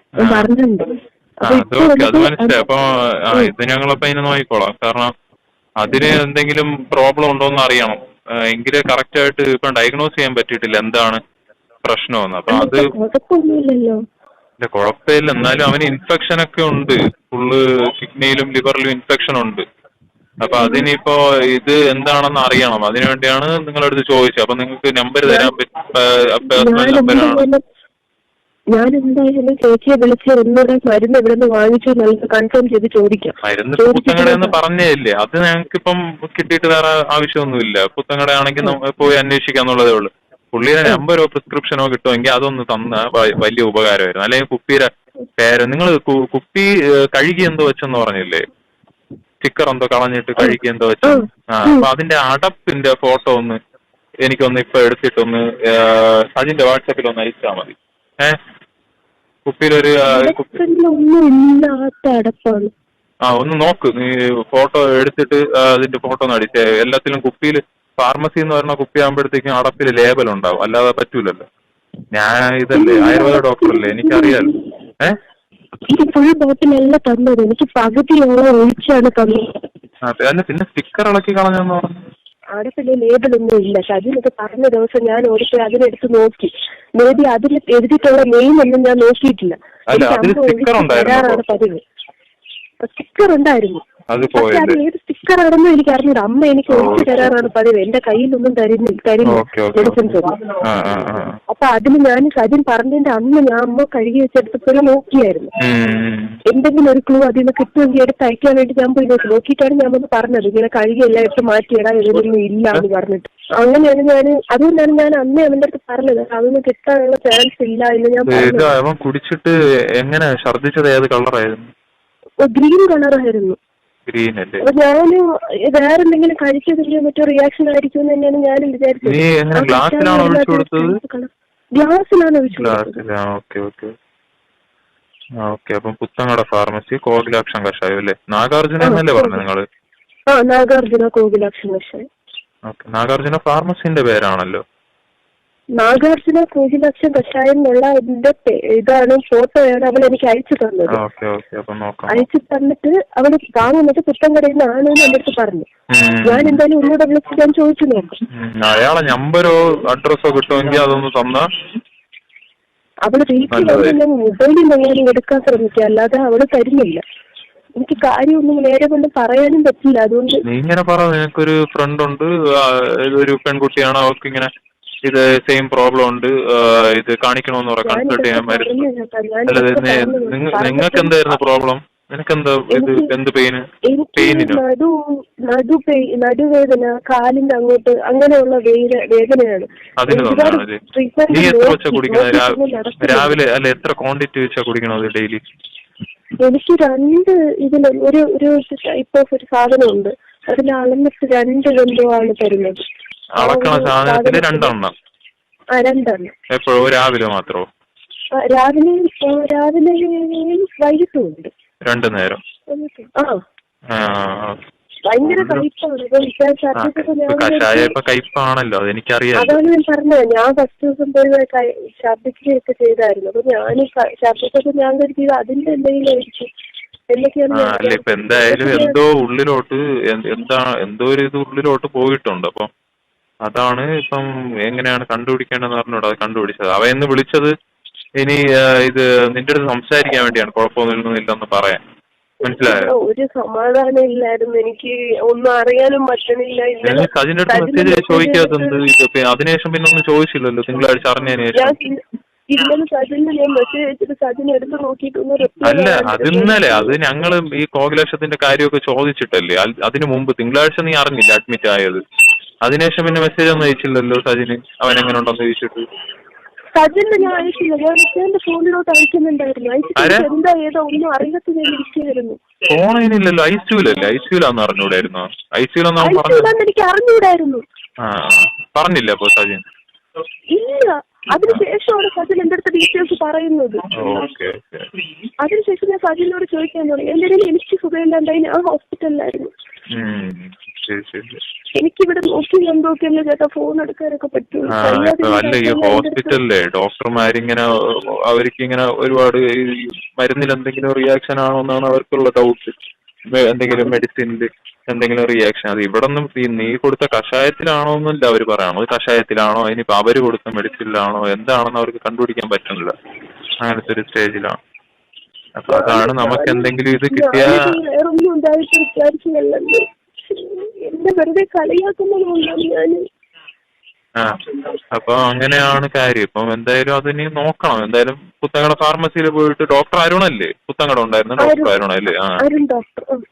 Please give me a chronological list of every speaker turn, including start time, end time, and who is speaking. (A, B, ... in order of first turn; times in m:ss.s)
0:00.2-0:00.5 A
0:00.2-0:00.9 B
0:01.4-0:02.6 B
0:01.4-0:05.1 A
0:05.8-0:11.2 A
0:11.8-0:12.9 A
0:12.5-0:14.0 B
0:14.6-0:19.6 A
0:20.4-0:27.4 A
0:20.6-0:20.9 B
0:25.2-0:25.5 B
0:26.6-0:27.6 B
0:28.7-0:34.6 B
0:33.4-0:48.4 A
0:49.4-0:53.6 A
0:50.4-0:51.9 B
0:54.2-0:58.4 A
0:59.5-1:00.5 A
1:00.1-1:02.7 B
1:03.3-1:11.4 A
1:12.2-1:15.2 A
1:12.7-1:14.8 B
1:15.9-1:19.5 B
1:20.1-1:22.0 A
1:22.6-1:31.8 B
1:29.9-1:31.4 A
1:32.8-1:40.5 B
1:34.1-1:34.8 A
1:36.7-1:37.4 A
1:39.2-1:41.4 A
1:41.5-1:45.5 B
1:45.6-1:46.4 A
1:46.5-1:58.7 B
1:58.3-2:01.7 A
2:02.4-2:03.6 B
2:04.1-2:04.6 A
2:04.6-2:13.0 B
2:09.0-2:11.0 A
2:12.6-2:13.9 A
2:15.4-2:19.6 A
2:18.8-2:19.4 B
2:20.3-2:22.0 B
2:22.7-2:24.6 A
2:25.8-2:31.0 B
2:30.9-2:32.2 A
2:32.1-2:35.7 B
2:35.9-2:36.6 A
2:36.2-2:38.2 B
2:38.4-2:41.5 A
2:43.1-2:47.0 B
2:43.5-2:44.0 A
2:47.8-2:50.4 B
2:50.4-2:54.5 A
2:55.0-2:58.8 A
2:57.8-3:01.2 B
2:59.5-3:03.6 A
3:02.7-3:03.1 B
3:03.9-3:04.9 B
3:04.2-3:04.6 A
3:05.5-3:13.4 B
3:10.0-3:10.8 A
3:11.3-3:15.4 A
3:16.4-3:22.8 B
3:23.4-3:24.9 A
3:23.4-3:24.8 B
3:25.8-3:26.3 B
3:26.5-3:27.7 A
3:28.4-3:31.5 B
3:31.8-3:32.4 A
3:32.7-3:33.3 B
3:33.9-3:34.6 A
3:35.1-3:38.0 B
3:35.2-3:35.7 A
3:36.8-3:39.6 A
3:39.4-3:46.5 B
3:47.1-3:49.0 B
3:47.5-3:52.7 A
3:53.4-3:57.5 A
3:58.2-4:01.8 A
4:02.4-4:02.8 A
4:02.5-4:08.8 B
4:06.8-4:11.8 A
4:11.6-4:12.0 B
4:12.5-4:17.0 B
4:15.6-4:22.0 A
4:22.6-4:25.9 A
4:26.8-4:32.4 B
4:30.0-4:30.3 A
4:32.7-4:36.5 A
4:36.0-4:37.6 B
4:38.0-4:39.6 A
4:40.5-4:43.8 B
4:41.4-4:41.7 A
4:43.9-4:44.9 A
4:45.4-4:49.5 B
4:49.9-4:51.4 A
4:51.8-4:56.4 B
4:54.7-5:02.8 A
5:03.3-5:12.9 A
5:13.6-5:14.6 A
5:15.6-5:17.8 A
5:15.7-5:23.0 B
5:24.2-5:32.4 A
5:31.4-5:31.8 B
5:32.4-5:33.2 B